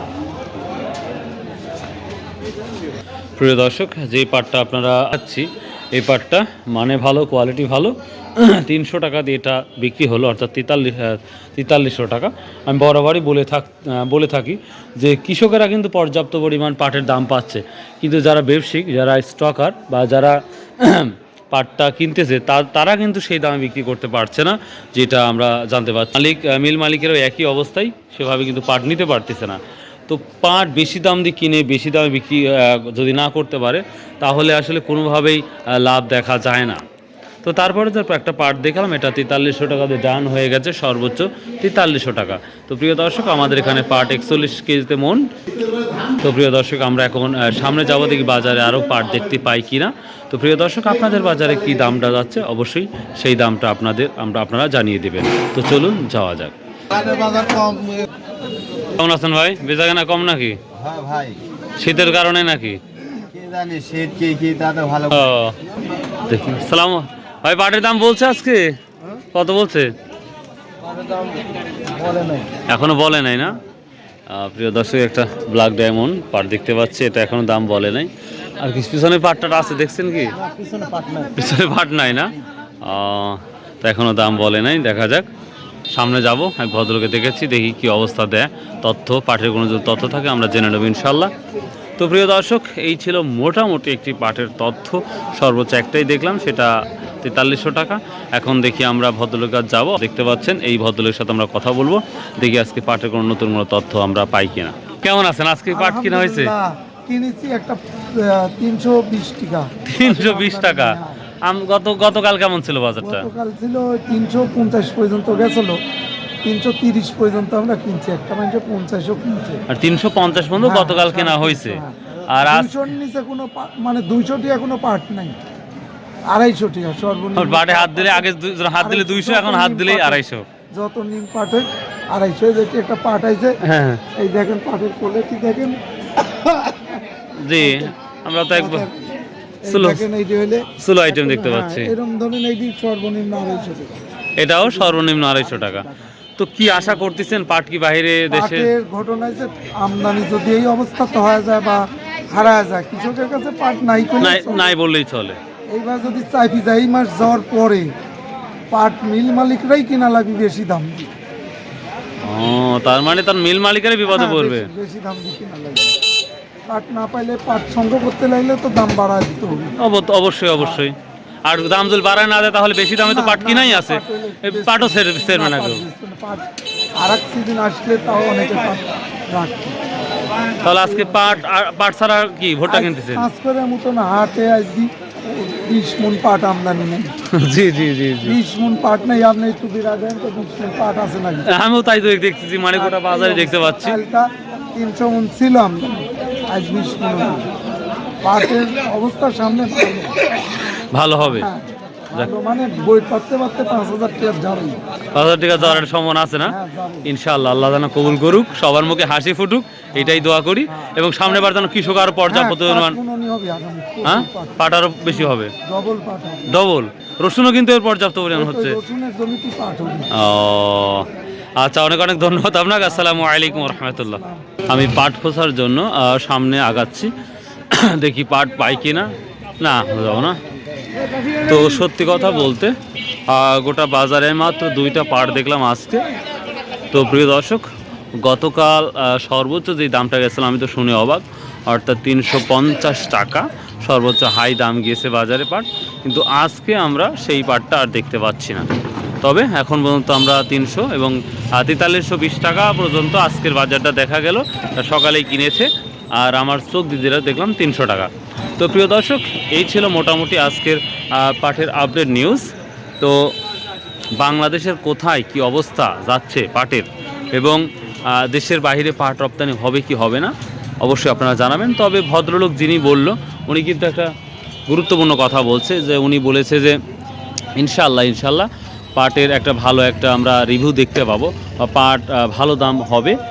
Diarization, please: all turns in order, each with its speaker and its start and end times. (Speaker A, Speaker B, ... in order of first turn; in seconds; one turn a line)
Speaker A: 3.4-36.8
Speaker A: 37.4-45.2
Speaker A: 46.2-56.5
Speaker B: 57.0-57.9
Speaker A: 59.0-60.6
Speaker B: 60.8-61.4
Speaker A: 61.8-62.8
Speaker B: 63.3-65.2
Speaker A: 65.1-65.5
Speaker A: 66.3-68.7
Speaker A: 69.3-69.9
Speaker A: 72.7-73.6
Speaker A: 74.3-80.5
Speaker A: 81.2-85.2
Speaker A: 85.9-91.3
Speaker A: 92.0-96.7
Speaker A: 97.2-106.5
Speaker C: 105.7-111.2
Speaker A: 109.8-113.3
Speaker C: 113.0-115.8
Speaker C: 116.4-119.6
Speaker A: 119.7-122.8
Speaker C: 120.6-125.4
Speaker C: 126.3-128.3
Speaker A: 127.3-130.4
Speaker C: 128.8-130.2
Speaker C: 130.7-133.6
Speaker A: 133.6-134.0
Speaker C: 134.2-137.0
Speaker A: 137.4-138.9
Speaker C: 137.6-137.9
Speaker C: 138.5-139.1
Speaker C: 139.6-143.9
Speaker A: 139.7-140.0
Speaker A: 140.8-141.9
Speaker A: 144.4-145.8
Speaker C: 144.6-145.9
Speaker A: 146.4-148.7
Speaker C: 148.3-154.7
Speaker A: 154.2-155.4
Speaker C: 155.7-157.9
Speaker C: 158.7-161.1
Speaker A: 162.2-164.7
Speaker C: 164.1-165.9
Speaker C: 166.7-169.8
Speaker A: 169.8-170.9
Speaker C: 170.6-170.8
Speaker A: 171.4-175.8
Speaker C: 173.1-179.8
Speaker A: 180.6-183.3
Speaker C: 180.7-181.4
Speaker C: 182.7-187.1
Speaker A: 187.3-188.4
Speaker C: 188.2-191.5
Speaker A: 191.4-194.0
Speaker C: 192.8-197.4
Speaker C: 198.2-200.1
Speaker A: 200.7-201.5
Speaker C: 201.2-204.8
Speaker A: 205.1-213.0
Speaker C: 206.4-207.1
Speaker C: 212.3-216.5
Speaker A: 214.0-215.5
Speaker A: 216.5-218.8
Speaker C: 218.3-220.1
Speaker A: 220.1-221.1
Speaker A: 221.6-227.1
Speaker C: 222.9-224.5
Speaker A: 227.7-230.4
Speaker A: 231.4-232.7
Speaker A: 233.3-236.0
Speaker A: 236.9-237.7
Speaker A: 238.2-248.6
Speaker A: 249.2-263.4
Speaker A: 264.2-274.1
Speaker A: 274.7-276.8
Speaker A: 277.6-283.2